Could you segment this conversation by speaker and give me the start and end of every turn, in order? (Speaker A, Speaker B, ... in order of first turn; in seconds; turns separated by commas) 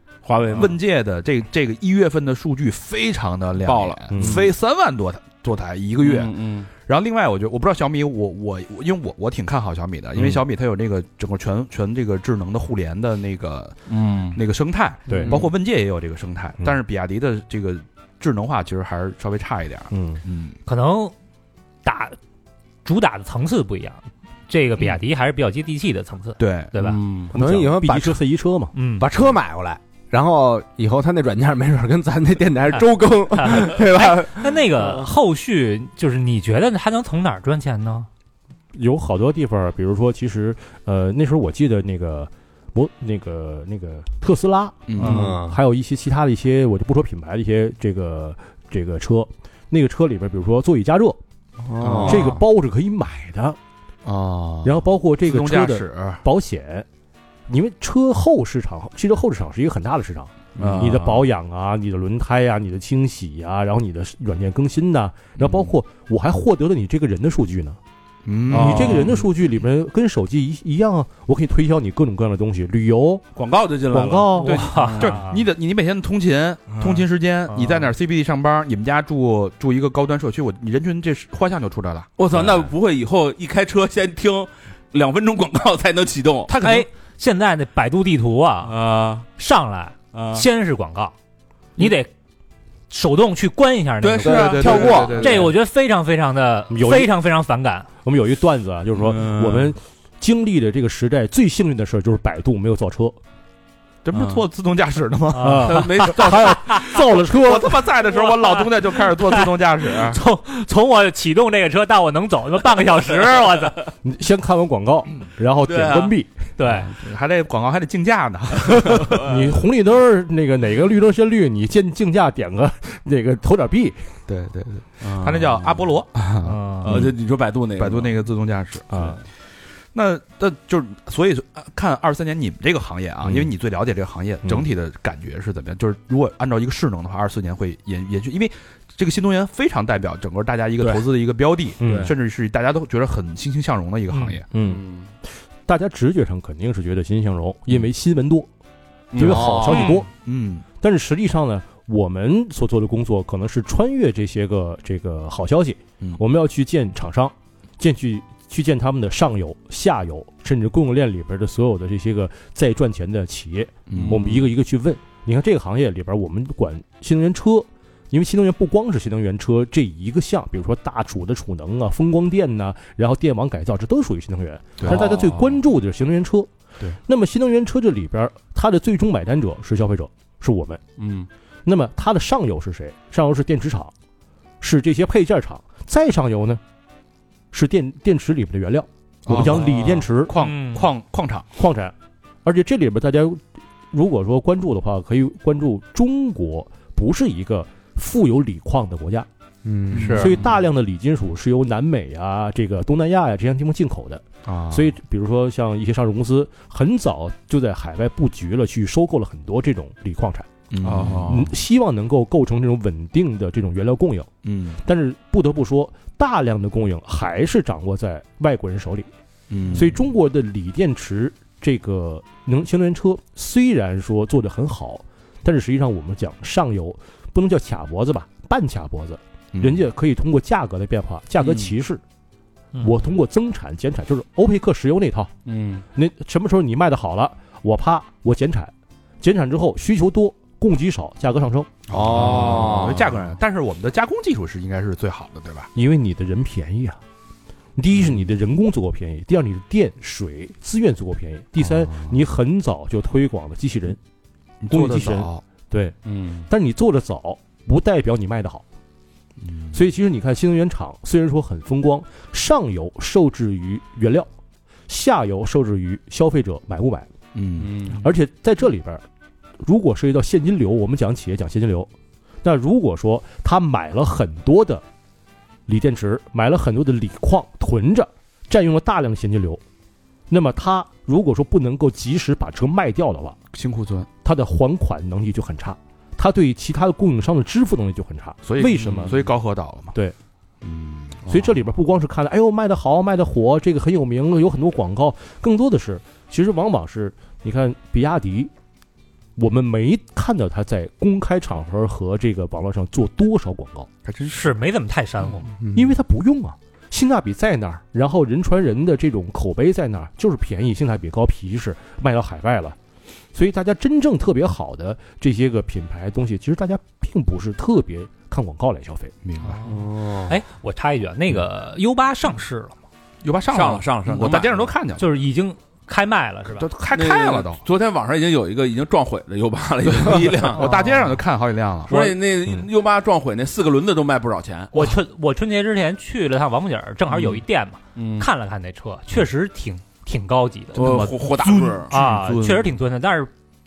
Speaker A: 0.2-0.8, Speaker B: 0.5-20.6, Speaker A: 3.6-4.5, Speaker C: 4.1-4.4, Speaker A: 6.0-6.7, Speaker A: 13.9-14.4, Speaker C: 15.1-15.4, Speaker C: 19.9-20.2, Speaker D: 20.6-21.1, Speaker D: 21.8-22.1, Speaker D: 22.9-27.0, Speaker B: 26.4-26.8, Speaker A: 26.8-27.3, Speaker E: 27.3-28.2, Speaker C: 27.3-28.7, Speaker D: 28.8-29.1, Speaker E: 29.0-35.1, Speaker D: 33.4-38.1, Speaker C: 38.7-51.2, Speaker B: 44.9-45.2, Speaker E: 45.0-45.6, Speaker E: 51.6-52.3, Speaker B: 51.8-52.4, Speaker C: 52.0-53.6, Speaker B: 54.0-56.2, Speaker C: 54.6-56.9, Speaker C: 57.5-67.8, Speaker A: 60.6-61.3, Speaker B: 60.6-60.9, Speaker B: 65.4-65.8, Speaker B: 68.2-69.1, Speaker C: 68.5-73.2, Speaker A: 68.5-69.3, Speaker A: 73.4-75.2, Speaker C: 73.9-74.5, Speaker D: 74.4-75.4, Speaker B: 74.4-82.7, Speaker A: 76.7-77.0, Speaker A: 82.2-86.5, Speaker B: 86.5-86.9, Speaker D: 86.5-88.8, Speaker A: 88.6-89.3, Speaker D: 89.4-91.1, Speaker A: 90.1-90.5, Speaker D: 91.8-92.1, Speaker D: 92.9-97.9, Speaker A: 94.0-95.5, Speaker E: 94.2-95.5, Speaker B: 94.2-95.5, Speaker C: 96.7-97.1, Speaker C: 98.0-103.2, Speaker A: 99.0-99.7, Speaker B: 104.0-105.8, Speaker A: 104.1-104.4, Speaker D: 105.3-106.8, Speaker A: 105.4-106.8, Speaker C: 105.4-107.8, Speaker B: 107.2-110.2, Speaker D: 108.2-113.9, Speaker C: 114.0-116.3, Speaker A: 115.6-116.1, Speaker D: 116.6-116.9, Speaker B: 116.9-119.2, Speaker C: 118.9-124.0, Speaker B: 124.3-127.1, Speaker A: 125.0-125.8, Speaker D: 126.4-126.9, Speaker A: 126.9-128.1, Speaker B: 127.8-129.1, Speaker C: 128.9-129.2, Speaker B: 129.9-144.4, Speaker C: 141.8-142.1, Speaker A: 141.8-142.1, Speaker D: 144.1-144.4, Speaker C: 144.5-144.8, Speaker A: 144.6-145.1, Speaker C: 145.7-148.5, Speaker A: 149.1-149.6, Speaker C: 149.1-150.1, Speaker E: 149.2-149.9, Speaker B: 149.5-150.7, Speaker D: 149.7-150.0, Speaker C: 150.8-176.5, Speaker B: 163.9-164.3, Speaker A: 163.9-164.5, Speaker B: 174.8-175.2, Speaker A: 174.8-175.6, Speaker C: 177.0-180.8, Speaker A: 181.0-181.3, Speaker C: 181.6-183.9, Speaker C: 184.6-186.6, Speaker C: 187.5-190.4, Speaker B: 189.2-191.5, Speaker A: 189.4-189.8, Speaker D: 190.4-190.9, Speaker C: 191.6-191.9, Speaker C: 192.4-199.3, Speaker E: 199.6-200.3, Speaker B: 199.9-200.5, Speaker A: 199.9-200.4, Speaker C: 200.1-210.5, Speaker B: 204.4-204.9, Speaker B: 210.7-211.4, Speaker A: 210.8-211.5, Speaker C: 211.2-214.3, Speaker B: 214.4-214.8, Speaker C: 214.8-219.1, Speaker B: 219.5-220.0, Speaker C: 219.7-232.0, Speaker B: 229.5-229.8, Speaker A: 231.4-231.7, Speaker C: 232.8-235.3, Speaker A: 235.4-235.8, Speaker C: 235.9-241.7, Speaker B: 241.9-245.7, Speaker E: 241.9-243.1, Speaker A: 242.2-242.8, Speaker C: 245.8-247.0, Speaker C: 247.8-254.0, Speaker B: 247.9-248.2, Speaker B: 251.6-252.1, Speaker B: 254.6-255.4, Speaker C: 254.7-255.9, Speaker A: 256.1-256.5, Speaker C: 256.5-258.6, Speaker B: 259.4-259.8, Speaker C: 259.7-264.3, Speaker C: 264.9-267.1, Speaker B: 267.3-267.9, Speaker A: 267.6-268.0, Speaker C: 267.9-269.0, Speaker C: 269.6-271.9, Speaker C: 272.4-274.8, Speaker C: 275.7-279.6, Speaker C: 280.3-283.4, Speaker B: 283.5-284.1, Speaker C: 284.2-289.1, Speaker B: 288.4-289.9, Speaker A: 288.8-289.2, Speaker B: 290.6-291.4, Speaker C: 291.3-298.5, Speaker C: 299.4-303.9, Speaker B: 304.0-304.4, Speaker D: 304.2-305.5, Speaker E: 305.6-305.9, Speaker C: 305.7-312.8, Speaker C: 313.3-319.1, Speaker B: 319.2-319.6, Speaker D: 319.4-322.8, Speaker E: 319.6-320.3, Speaker B: 323.2-325.1, Speaker A: 323.5-324.6, Speaker D: 325.0-326.7, Speaker B: 326.5-327.6, Speaker A: 326.9-330.8, Speaker B: 329.9-332.0, Speaker A: 331.9-334.8, Speaker D: 334.7-341.1, Speaker A: 337.9-338.3, Speaker A: 340.7-341.9, Speaker B: 340.8-342.7, Speaker D: 341.9-343.3